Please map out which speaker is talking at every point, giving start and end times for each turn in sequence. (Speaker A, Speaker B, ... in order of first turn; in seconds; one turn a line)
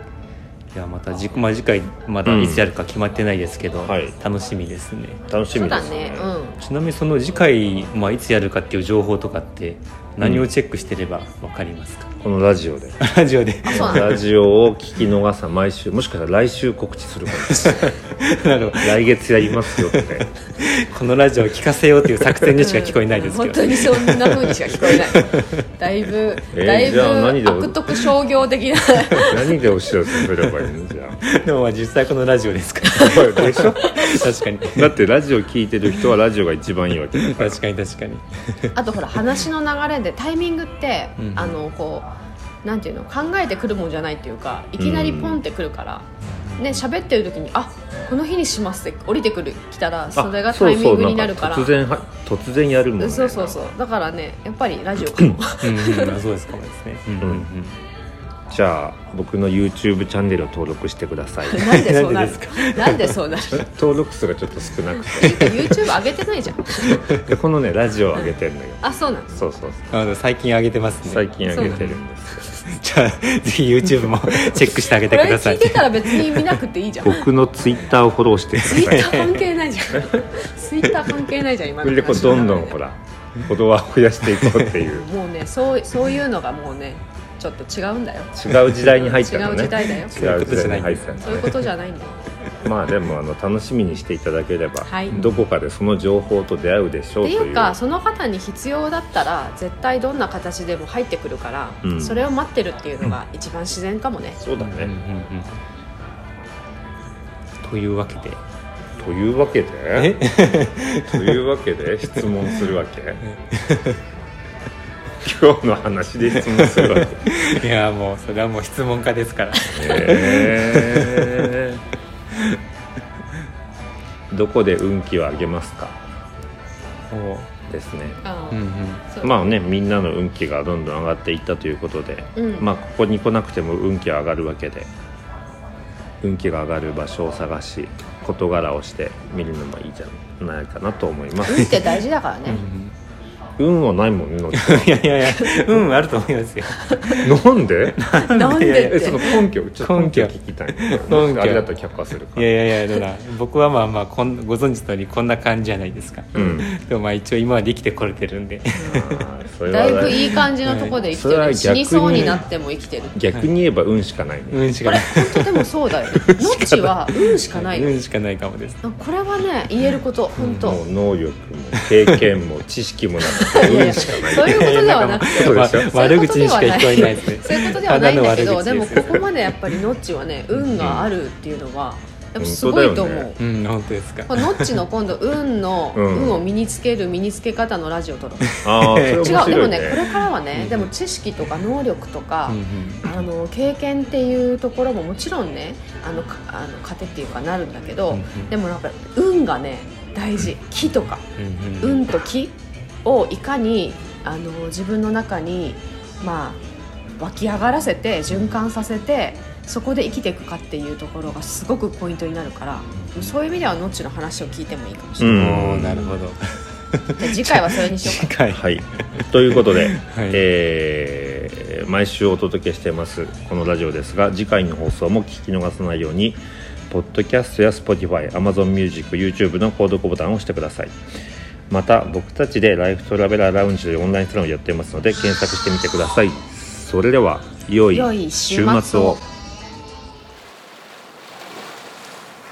Speaker A: 0.7-5.2
Speaker B: 2.2-2.7
Speaker B: 3.9-4.2
Speaker B: 5.3-6.3
Speaker C: 5.5-6.6
Speaker A: 6.6-12.1
Speaker B: 10.2-10.5
Speaker B: 12.2-13.0
Speaker A: 13.0-14.2
Speaker C: 13.7-14.2
Speaker B: 13.7-17.9
Speaker A: 17.4-25.5
Speaker B: 18.8-20.3
Speaker C: 22.6-29.6
Speaker B: 26.5-28.0
Speaker B: 29.2-31.2
Speaker A: 31.2-34.9
Speaker B: 33.0-34.0
Speaker C: 33.0-34.1
Speaker B: 34.7-37.6
Speaker A: 37.1-38.8
Speaker C: 38.7-42.1
Speaker A: 41.2-41.6
Speaker C: 42.6-51.8
Speaker B: 44.8-45.4
Speaker A: 46.4-46.8
Speaker B: 50.1-53.7
Speaker C: 53.0-56.2
Speaker A: 55.6-57.8
Speaker B: 57.2-57.5
Speaker B: 58.5-61.8
Speaker C: 61.5-63.7
Speaker A: 61.7-63.2
Speaker B: 63.5-65.7
Speaker C: 65.1-67.1
Speaker A: 65.2-65.6
Speaker B: 67.1-69.9
Speaker C: 68.8-69.5
Speaker A: 69.9-72.0
Speaker B: 71.1-72.6
Speaker C: 71.5-71.8
Speaker A: 72.6-76.6
Speaker C: 74.9-77.3
Speaker B: 77.0-79.1
Speaker A: 78.6-79.5
Speaker C: 78.6-82.8
Speaker B: 81.8-85.1
Speaker A: 84.3-84.7
Speaker C: 84.9-88.3
Speaker B: 88.3-91.5
Speaker C: 88.9-90.2
Speaker A: 89.8-91.6
Speaker C: 91.2-92.2
Speaker B: 92.7-97.8
Speaker C: 94.8-95.2
Speaker A: 95.1-95.5
Speaker C: 97.2-104.4
Speaker B: 101.8-102.3
Speaker B: 104.4-104.9
Speaker A: 104.6-105.5
Speaker A: 107.6-108.4
Speaker B: 109.0-110.2
Speaker A: 110.0-111.4
Speaker B: 111.1-113.2
Speaker A: 112.1-112.7
Speaker A: 113.2-114.0
Speaker B: 115.2-117.3
Speaker A: 116.3-121.7
Speaker B: 119.7-121.8
Speaker B: 124.3-126.0
Speaker A: 127.1-127.5
Speaker B: 127.7-128.2
Speaker C: 128.2-129.5
Speaker A: 128.5-129.0
Speaker B: 129.2-134.9
Speaker C: 132.4-132.7
Speaker B: 136.2-141.8
Speaker C: 141.4-142.6
Speaker A: 142.5-142.9
Speaker B: 143.6-145.1
Speaker A: 144.5-147.4
Speaker C: 145.3-145.9
Speaker C: 146.8-147.3
Speaker B: 147.2-148.0
Speaker A: 148.0-151.7
Speaker C: 148.2-149.3
Speaker B: 148.8-152.5
Speaker A: 152.3-159.2
Speaker B: 156.3-156.7
Speaker C: 158.8-159.1
Speaker B: 158.9-160.4
Speaker C: 159.7-163.2
Speaker A: 160.1-161.0
Speaker B: 161.0-162.4
Speaker A: 162.1-162.4
Speaker B: 163.2-164.6
Speaker A: 164.5-165.6
Speaker C: 164.8-167.9
Speaker A: 166.2-168.8
Speaker C: 168.8-170.8
Speaker A: 170.4-170.8
Speaker B: 170.6-174.7
Speaker A: 171.8-172.3
Speaker A: 173.4-179.2
Speaker C: 173.4-183.4
Speaker B: 175.3-175.9
Speaker A: 180.5-180.8
Speaker B: 180.8-181.1
Speaker B: 182.4-183.3
Speaker A: 183.4-184.8
Speaker C: 184.3-188.5
Speaker B: 185.9-186.4
Speaker A: 188.5-189.6
Speaker B: 188.6-190.1
Speaker C: 189.2-201.2
Speaker A: 190.5-190.9
Speaker A: 192.5-193.1
Speaker A: 198.1-198.5
Speaker A: 201.4-202.1
Speaker C: 201.8-206.6
Speaker C: 207.2-216.2
Speaker A: 208.3-208.6
Speaker A: 212.9-213.3
Speaker B: 215.2-216.1
Speaker A: 215.2-220.4
Speaker C: 217.2-218.3
Speaker B: 218.5-230.9
Speaker B: 231.7-239.2
Speaker C: 237.9-239.2